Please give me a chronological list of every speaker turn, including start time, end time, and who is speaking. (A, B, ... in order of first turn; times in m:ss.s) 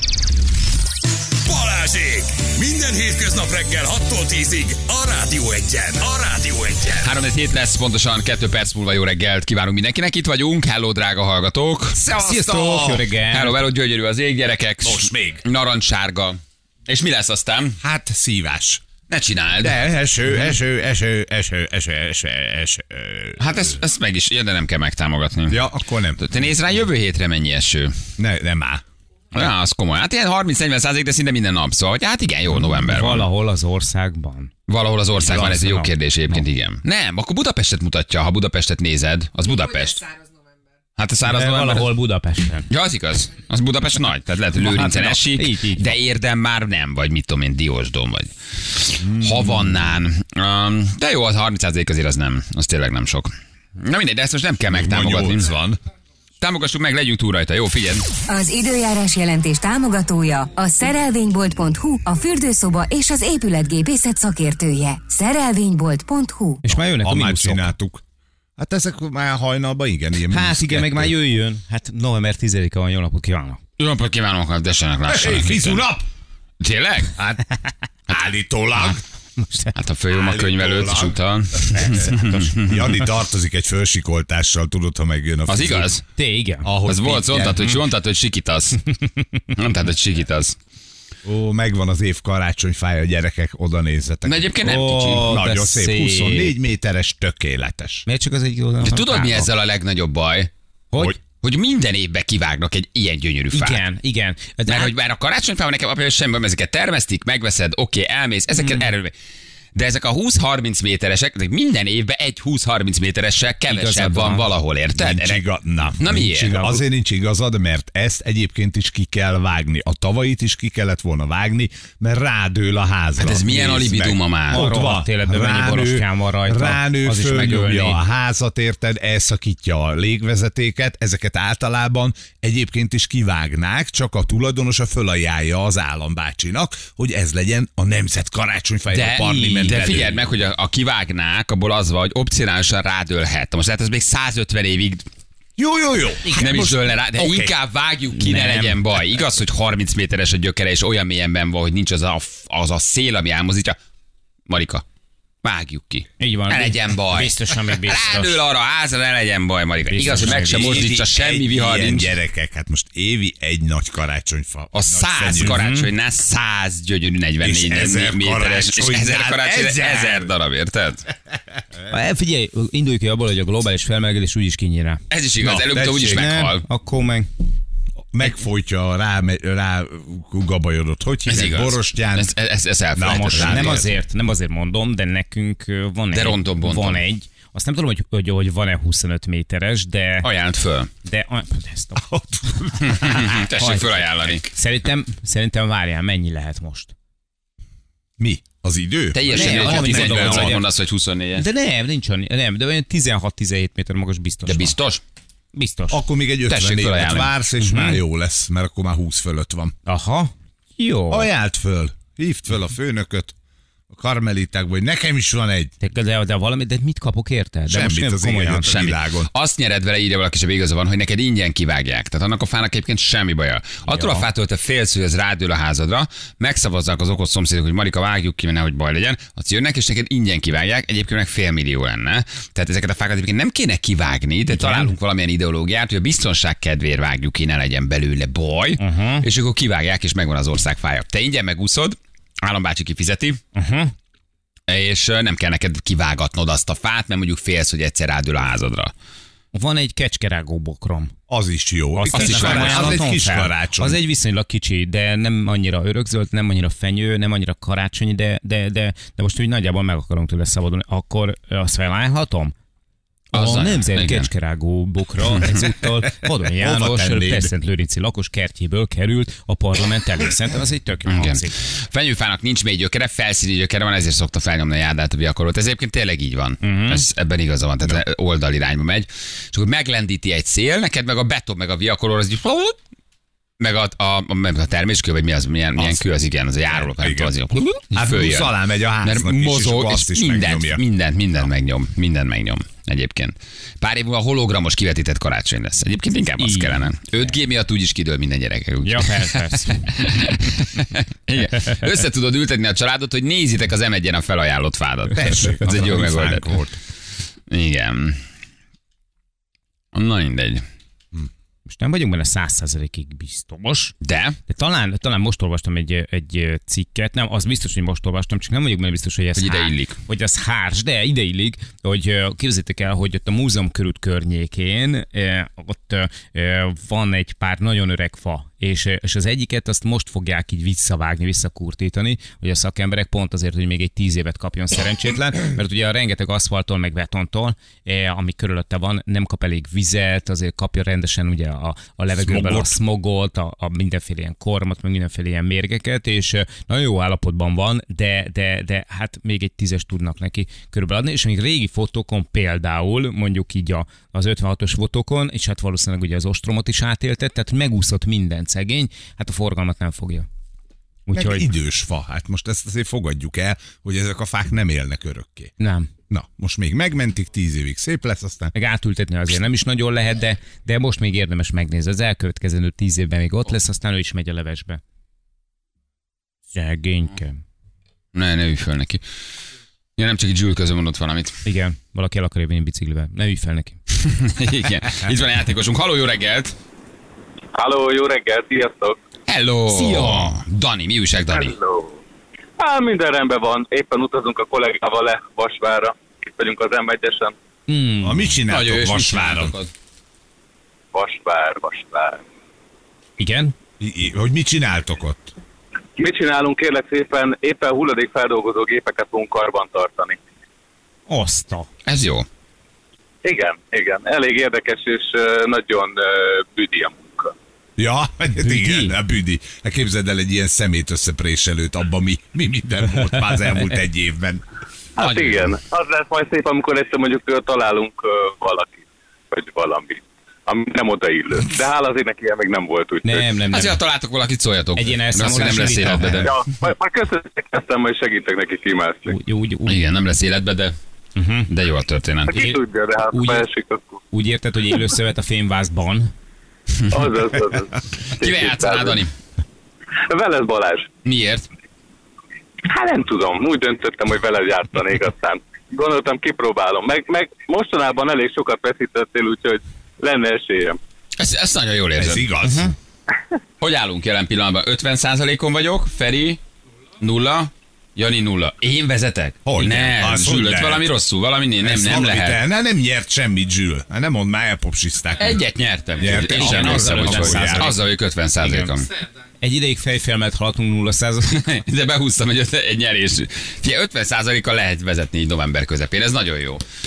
0:01.4-0:07.1 A
0:07.0-0:12.0 B
0:11.9-0:13.1 C
0:12.1-0:13.6 D
0:13.3-0:17.8 B
0:14.8-0:15.4 C
0:17.8-0:18.8 C
0:19.1-0:19.8 B
0:19.6-0:23.7 C
0:23.4-0:28.0 B
0:25.5-0:26.2 C
0:28.2-0:28.8 C
0:29.3-0:33.3 B
0:32.8-0:34.5 D
0:34.7-0:40.1 B
0:35.3-0:36.4 D
0:41.0-0:41.9 B
0:41.3-0:42.7 D
0:42.7-0:55.5 B
0:44.6-0:45.9 D
0:49.0-0:49.8 C
0:54.7-0:55.8 C
0:56.4-0:58.1 B
0:58.3-1:06.6 E
1:06.6-1:07.7 D
1:06.9-1:08.0 C
1:08.6-1:11.1 C
1:10.3-1:13.6 D
1:13.8-1:15.8 B
1:15.1-1:16.1 C
1:16.6-1:17.2 B
1:17.2-1:17.4 C
1:18.1-1:19.0 C
1:19.4-1:19.7 D
1:19.8-1:22.9 B
1:20.1-1:25.9 C
1:21.8-1:22.4 D
1:25.5-1:26.0 B
1:26.2-1:26.7 D
1:26.6-1:27.8 C
1:26.8-1:28.8 B
1:29.5-1:30.6 B
1:31.2-1:38.0 C
1:34.2-1:35.3 B
1:34.6-1:36.6 D
1:38.1-1:39.5 D
1:38.8-1:40.5 B
1:40.9-1:41.2 D
1:41.2-1:43.8 B
1:43.5-1:44.9 D
1:44.7-1:49.1 B
1:48.6-1:48.9 D
1:49.8-1:55.4 B
1:53.7-1:54.5 D
1:55.0-2:20.3 C
1:56.0-1:56.7 B
2:03.2-2:04.7 B
2:04.5-2:08.0 D
2:18.9-2:25.1 B
2:19.1-2:19.9 D
2:25.6-2:27.5 C
2:26.3-2:33.8 B
2:28.1-2:28.8 D
2:34.5-2:34.8 B
2:35.4-2:42.1 B
2:36.2-2:38.4 D
2:39.9-2:40.9 D
2:40.0-2:45.6 C
2:44.7-2:51.1 B
2:45.4-2:45.9 D
2:47.4-2:50.3 C
2:51.9-2:55.0 D
2:55.1-2:56.6 B
2:55.4-2:56.3 C
2:56.0-2:57.3 D
2:58.1-3:02.3 C
3:01.3-3:03.8 B
3:03.0-3:03.9 C
3:03.1-3:10.3 D
3:06.1-3:07.0 B
3:10.2-3:10.9 B
3:11.0-3:12.1 D
3:12.0-3:13.4 C
3:12.8-3:14.4 B
3:13.6-3:16.9 D
3:18.2-3:20.6 C
3:19.1-3:21.4 B
3:19.3-3:20.6 D
3:21.4-3:24.8 D
3:24.5-3:25.0 B
3:25.5-3:26.0 D
3:25.9-3:29.7 C
3:26.5-3:27.3 B
3:27.6-3:28.0 D
3:29.9-3:31.3 D
3:31.1-3:33.4 C
3:33.9-3:35.7 C
3:35.8-3:38.7 D
3:37.7-3:39.3 C
3:38.6-4:03.4 B
3:43.9-3:44.3 D
3:54.5-3:54.9 D
3:58.8-3:59.3 D
4:03.6-4:03.9 D
4:04.7-4:08.9 B
4:09.5-4:11.1 D
4:11.3-4:14.0 C
4:12.0-4:22.5 D
4:12.1-4:13.0 B
4:23.3-4:31.6 D
4:23.3-4:24.3 B
4:26.0-4:27.5 C
4:31.1-4:42.8 B
4:36.6-4:37.0 D
4:43.6-5:06.5 B
4:45.8-4:46.1 C
4:46.7-4:50.8 C
4:56.4-4:57.3 D
4:58.8-4:59.9 D
5:05.1-5:06.8 C
5:07.5-5:08.2 B
5:09.9-5:10.6 B
5:11.7-5:13.9 D
5:14.0-5:14.4 B
5:14.5-6:00.3 D
5:19.4-5:20.0 B
5:42.2-5:42.8 C
6:01.1-6:01.5 D
6:01.1-6:05.5 C
6:05.6-6:05.9 D
6:06.1-6:08.5 C
6:08.5-6:14.8 D
6:16.5-6:17.4 D
6:18.1-6:19.0 B
6:20.0-6:21.4 B
6:21.4-6:23.8 D
6:24.0-6:26.6 B
6:27.6-6:29.0 F
6:29.3-6:31.6 B
6:29.7-6:30.4 D
6:31.3-6:32.0 F
6:32.6-6:37.4 F
6:37.7-6:38.4 D
6:38.0-6:39.5 C
6:38.5-6:39.7 B
6:40.9-6:42.2 F
6:43.2-6:43.6 D
6:43.8-6:45.3 C
6:46.0-6:50.2 F
6:51.1-6:51.7 D
6:51.8-6:52.3 B
6:53.2-6:57.3 F
6:57.8-7:04.4 C
6:58.4-6:59.0 D
7:05.0-7:13.3 F
7:05.0-7:05.6 B
7:13.0-7:13.8 D
7:13.5-7:16.5 B
7:14.8-7:16.3 D
7:16.2-7:19.2 F
7:19.1-7:19.8 D
7:19.7-7:20.8 B
7:21.2-7:21.5 D
7:21.5-7:22.5 B
7:22.3-7:24.0 F
7:23.1-7:23.5 D
7:24.1-7:26.1 D
7:26.8-7:27.2 B
7:26.9-7:29.0 F
7:28.2-7:29.1 B
7:30.1-7:30.9 F
7:31.0-7:31.5 B
7:32.7-7:40.8 F
7:41.2-7:42.3 B
7:42.0-7:42.7 C
7:42.4-7:42.7 D
7:43.6-7:46.4 B
7:47.0-7:52.4 B
7:49.5-7:50.9 C
7:51.6-7:55.4 C
7:55.2-7:58.9 B
7:56.0-7:57.7 C
7:56.0-7:57.8 D
7:58.4-7:58.7 D
7:59.4-8:01.4 D
8:01.3-8:06.6 B